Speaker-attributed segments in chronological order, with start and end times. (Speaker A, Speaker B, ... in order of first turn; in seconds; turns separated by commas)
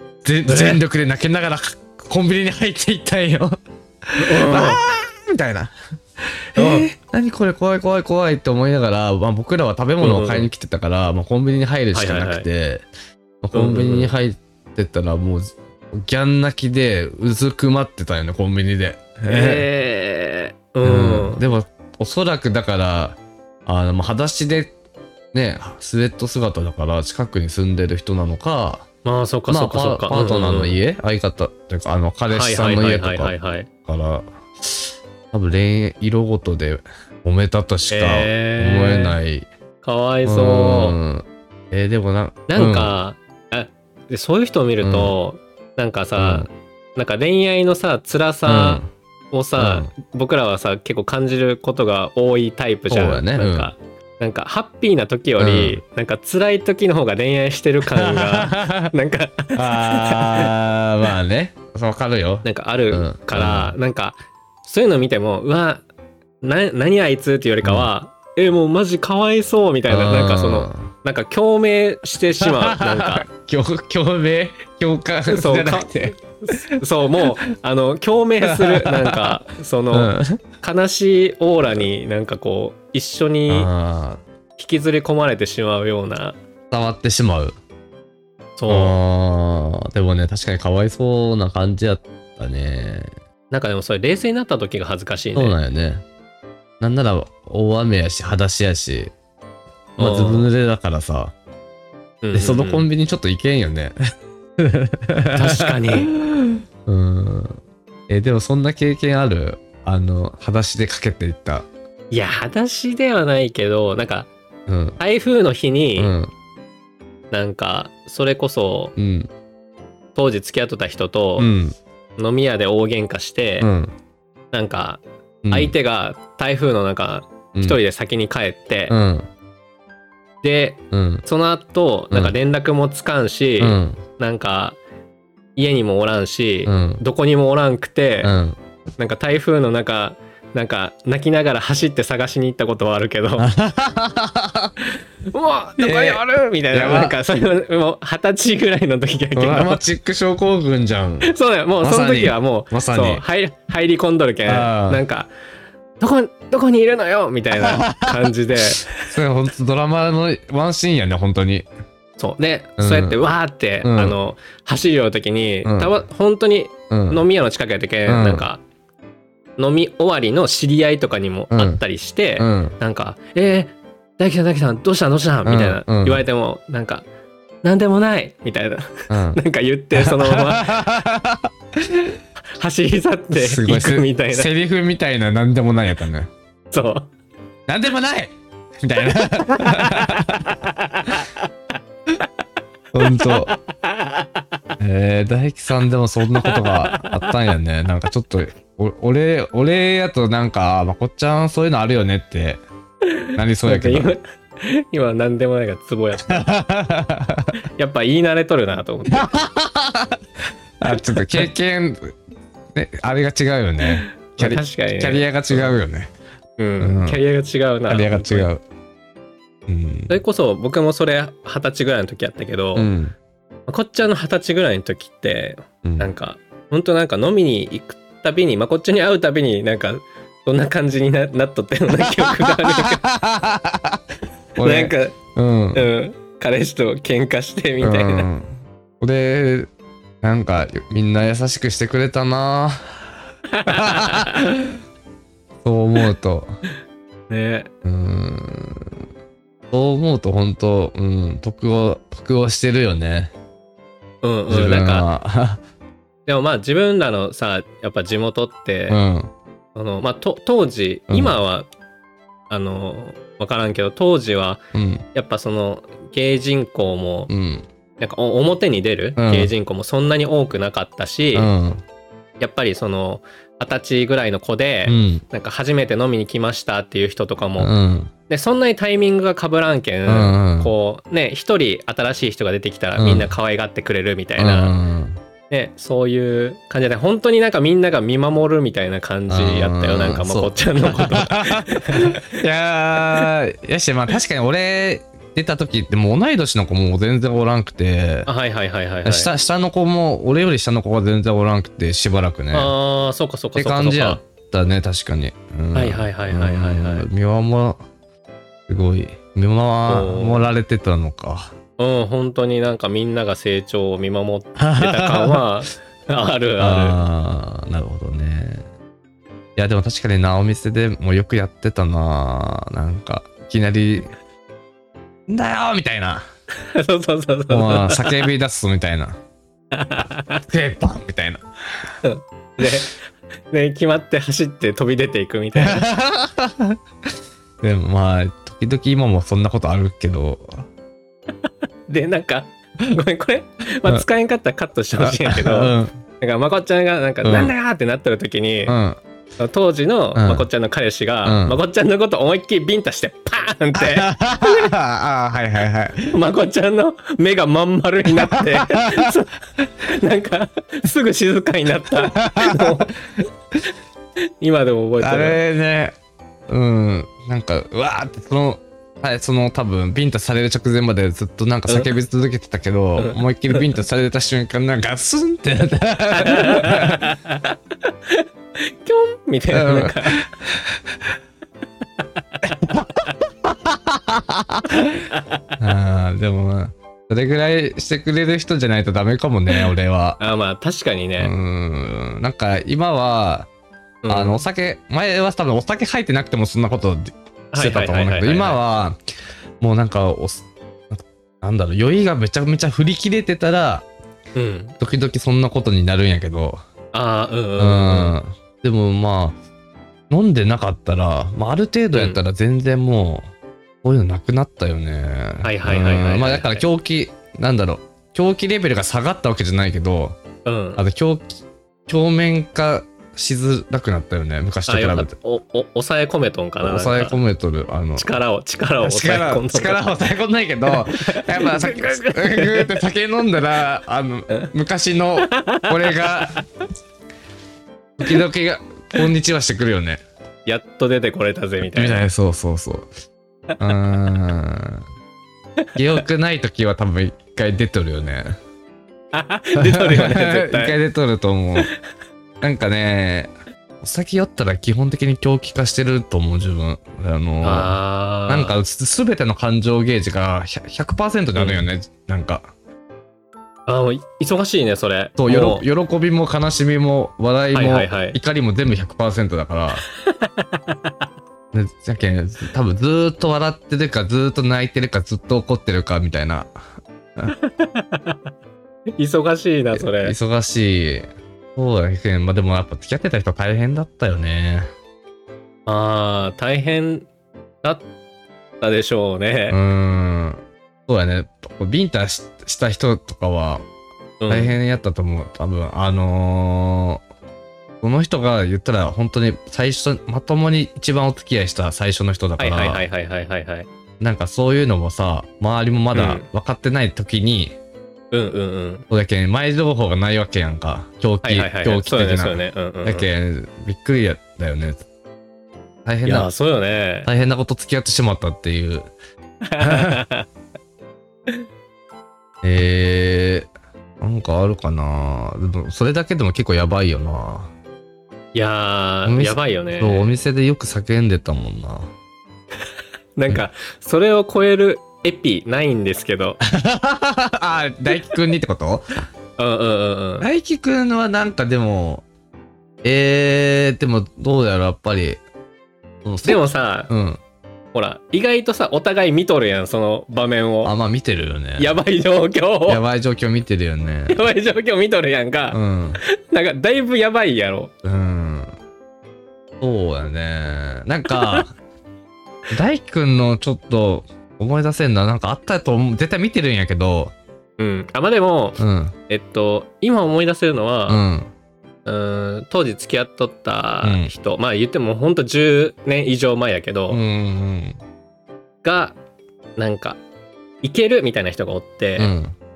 Speaker A: 0.2-12.9, Speaker B: 0.5-0.8, Speaker B: 4.2-4.8, Speaker B: 6.6-6.9, Speaker B: 10.0-10.5, Speaker B: 11.9-12.5, Speaker A: 13.4-19.7, Speaker B: 13.5-14.1, Speaker B: 19.3-21.4, Speaker A: 20.8-24.7, Speaker A: 25.3-28.9, Speaker B: 29.1-30.8, Speaker A: 29.5-33.3, Speaker B: 32.3-33.7, Speaker A: 33.9-39.5, Speaker B: 37.9-39.2, Speaker B: 39.8-41.0, Speaker A: 40.2-43.0, Speaker B: 42.5-60.5, Speaker A: 44.8-45.1, Speaker A: 46.2-46.5, Speaker A: 48.5-48.9, Speaker A: 49.6-49.9, Speaker A: 52.9-53.7, Speaker A: 55.4-55.8, Speaker A: 57.9-58.9, Speaker A: 59.5-63.8, Speaker B: 62.4-65.8, Speaker B: 66.4-73.3, Speaker A: 67.6-67.9, Speaker A: 69.9-70.9, Speaker A: 72.4-77.3, Speaker B: 75.3-83.7, Speaker A: 78.4-79.4, Speaker A: 79.9-80.4, Speaker A: 83.5-84.2, Speaker B: 84.6-86.4, Speaker A: 86.7-87.6, Speaker B: 88.6-89.0, Speaker A: 88.7-93.1, Speaker B: 93.5-95.6, Speaker A: 95.3-96.0, Speaker A: 96.8-99.1, Speaker A: 100.0-101.3, Speaker B: 100.0-100.5, Speaker B: 102.2-102.9, Speaker A: 102.3-104.0, Speaker A: 104.6-107.6, Speaker B: 105.3-106.1, Speaker A: 108.1-111.7, Speaker B: 112.1-114.3, Speaker A: 114.7-115.0, Speaker B: 115.0-116.1, Speaker A: 116.0-116.3, Speaker B: 117.3-119.0, Speaker A: 119.0-119.3, Speaker B: 120.2-121.5, Speaker A: 121.4-121.8, Speaker B: 122.2-123.7, Speaker A: 123.6-123.9, Speaker B: 124.5-128.9, Speaker A: 125.4-125.8, Speaker A: 127.5-127.8, Speaker A: 128.9-129.3, Speaker B: 130.4-134.8, Speaker A: 130.9-131.2, Speaker A: 133.6-134.0, Speaker B: 135.6-138.4, Speaker A: 136.7-137.0, Speaker A: 138.2-138.6, Speaker B: 139.0-143.5, Speaker A: 143.4-144.7, Speaker B: 145.3-149.8, Speaker A: 145.8-147.2, Speaker A: 149.4-153.2, Speaker B: 151.2-155.3, Speaker A: 154.5-155.0, Speaker B: 156.0-158.9, Speaker A: 157.6-158.3, Speaker A: 158.9-161.7, Speaker B: 162.2-168.6, Speaker A: 162.8-163.2, Speaker A: 163.8-164.2, Speaker A: 165.6-165.9, Speaker A: 166.9-167.2, Speaker A: 168.1-168.4, Speaker B: 169.6-177.1, Speaker A: 171.5-171.8, Speaker A: 172.4-172.8, Speaker A: 175.5-176.2, Speaker B: 177.6-180.8, Speaker A: 179.1-179.4, Speaker A: 179.9-182.1, Speaker B: 182.6-184.5, Speaker A: 183.3-186.3, Speaker B: 186.7-187.1, Speaker A: 187.7-190.6, Speaker B: 189.4-191.3, Speaker A: 192.9-193.5, Speaker B: 193.1-194.3, Speaker A: 194.8-202.6, Speaker B: 196.4-197.3, Speaker B: 203.1-206.5, Speaker A: 203.3-204.1, Speaker A: 206.3-207.6, Speaker B: 207.6-209.3, Speaker A: 209.1-210.2, Speaker A: 210.8-212.2, Speaker B: 210.9-211.5, Speaker A: 212.7-216.1, Speaker B: 213.9-215.8, Speaker B: 216.6-218.5, Speaker A: 216.8-217.2, Speaker A: 217.9-218.6, Speaker A: 219.7-220.1, Speaker B: 220.1-222.9, Speaker A: 222.8-223.2, Speaker B: 223.7-233.0, Speaker A: 225.8-226.1, Speaker A: 231.9-234.0, Speaker A: 234.6-235.9, Speaker B: 234.6-235.2, Speaker B: 235.8-238.3, Speaker A: 237.8-239.7, Speaker A: 240.2-243.1, Speaker B: 243.5-244.4, Speaker A: 243.7-244.8, Speaker A: 245.6-246.5, Speaker B: 247.3-247.7, Speaker A: 247.8-248.9, Speaker A: 249.7-253.3, Speaker B: 254.2-255.1, Speaker A: 254.5-255.6, Speaker B: 256.3-259.0, Speaker A: 258.9-259.3, Speaker B: 259.8-261.7, Speaker A: 261.1-261.4, Speaker B: 262.5-267.3, Speaker A: 264.7-265.0, Speaker A: 267.3-267.6, Speaker B: 268.0-271.5, Speaker A: 269.2-269.5, Speaker A: 271.3-271.8, Speaker B: 272.4-277.7, Speaker A: 274.9-275.2, Speaker A: 277.6-278.1, Speaker B: 278.3-284.8, Speaker A: 280.1-280.7, Speaker A: 283.0-283.3, Speaker A: 284.4-285.2, Speaker B: 285.5-292.3, Speaker A: 289.3-298.3, Speaker B: 298.3-299.3, Speaker A: 299.1-302.7, Speaker B: 302.5-304.2, Speaker A: 303.6-307.8, Speaker B: 305.7-307.1, Speaker A: 308.7-311.5, Speaker B: 309.9-310.5, Speaker B: 311.8-317.0, Speaker A: 314.6-315.4, Speaker A: 316.6-318.7, Speaker A: 319.6-324.1, Speaker A: 325.3-326.3, Speaker B: 326.6-328.3, Speaker A: 327.5-329.2, Speaker B: 329.7-330.4, Speaker A: 330.4-331.4, Speaker B: 332.0-333.0, Speaker B: 333.5-335.9, Speaker A: 335.6-336.8, Speaker A: 337.6-340.7, Speaker B: 341.9-348.8, Speaker A: 345.0-345.9, Speaker A: 347.2-347.5, Speaker A: 348.7-349.0, Speaker B: 349.4-354.7, Speaker A: 350.2-350.5, Speaker A: 351.2-351.6, Speaker A: 353.8-356.2, Speaker B: 356.1-363.3, Speaker A: 358.1-359.1, Speaker A: 361.9-362.9, Speaker B: 364.4-365.4, Speaker A: 365.0-365.9, Speaker A: 366.5-377.1, Speaker B: 373.0-373.8, Speaker B: 376.1-380.2, Speaker A: 379.5-381.0, Speaker A: 382.4-390.2, Speaker B: 385.1-385.4, Speaker B: 390.2-391.3, Speaker A: 391.2-393.5, Speaker B: 394.0-394.4, Speaker A: 394.1-399.0, Speaker B: 397.5-398.6, Speaker A: 399.6-403.9, Speaker B: 404.4-404.8, Speaker A: 404.8-406.6, Speaker B: 406.9-408.2, Speaker A: 407.6-409.4, Speaker A: 410.1-413.3, Speaker B: 411.9-412.2, Speaker A: 413.8-420.2, Speaker B: 415.4-416.6, Speaker B: 420.4-420.8, Speaker A: 420.8-425.1, Speaker B: 424.7-427.2, Speaker A: 426.6-428.1, Speaker B: 428.0-429.8, Speaker A: 428.8-436.4, Speaker B: 430.7-432.8, Speaker B: 435.2-436.4, Speaker A: 438.0-440.0, Speaker B: 440.5-442.1, Speaker A: 441.7-442.9, Speaker A: 443.6-444.9, Speaker A: 445.8-448.4, Speaker B: 449.1-450.8, Speaker A: 449.6-451.7, Speaker A: 452.4-457.8, Speaker B: 457.4-458.6, Speaker A: 458.3-462.5, Speaker B: 461.4-461.6, Speaker B: 463.7-465.7, Speaker A: 465.2-469.8, Speaker B: 467.5-468.2, Speaker B: 470.0-470.9, Speaker A: 471.5-476.5, Speaker B: 477.3-478.2, Speaker B: 479.0-480.2, Speaker A: 479.7-484.7, Speaker B: 485.7-487.1, Speaker B: 488.6-489.6, Speaker A: 489.5-493.6, Speaker B: 494.2-494.6, Speaker A: 494.3-497.0, Speaker A: 497.8-502.8, Speaker B: 502.4-503.7, Speaker A: 504.0-507.5, Speaker B: 505.9-506.3, Speaker B: 508.1-508.9, Speaker A: 508.9-514.9, Speaker B: 511.2-513.1, Speaker A: 515.9-516.3, Speaker B: 516.0-517.1, Speaker A: 517.0-518.9, Speaker B: 519.4-520.3, Speaker A: 519.6-520.0, Speaker A: 522.4-523.5, Speaker A: 524.0-527.5, Speaker B: 528.3-530.1, Speaker A: 529.1-531.9, Speaker B: 533.2-536.4, Speaker A: 536.4-538.9, Speaker B: 539.4-540.3, Speaker A: 540.2-542.0, Speaker A: 542.8-545.2, Speaker A: 546.0-547.2, Speaker B: 546.2-546.9, Speaker B: 547.7-550.7, Speaker A: 550.6-551.8, Speaker B: 551.6-552.8, Speaker A: 552.7-554.2, Speaker B: 554.1-557.7, Speaker A: 555.5-556.0, Speaker A: 557.8-558.5, Speaker A: 559.6-561.5, Speaker B: 561.1-561.5, Speaker A: 562.5-567.1, Speaker B: 567.6-571.0, Speaker A: 568.6-569.0, Speaker A: 570.9-571.3, Speaker B: 571.9-577.0, Speaker A: 573.8-574.1, Speaker A: 576.9-577.8, Speaker B: 578.6-579.0, Speaker B: 579.6-580.0, Speaker B: 580.6-582.1, Speaker A: 582.0-582.3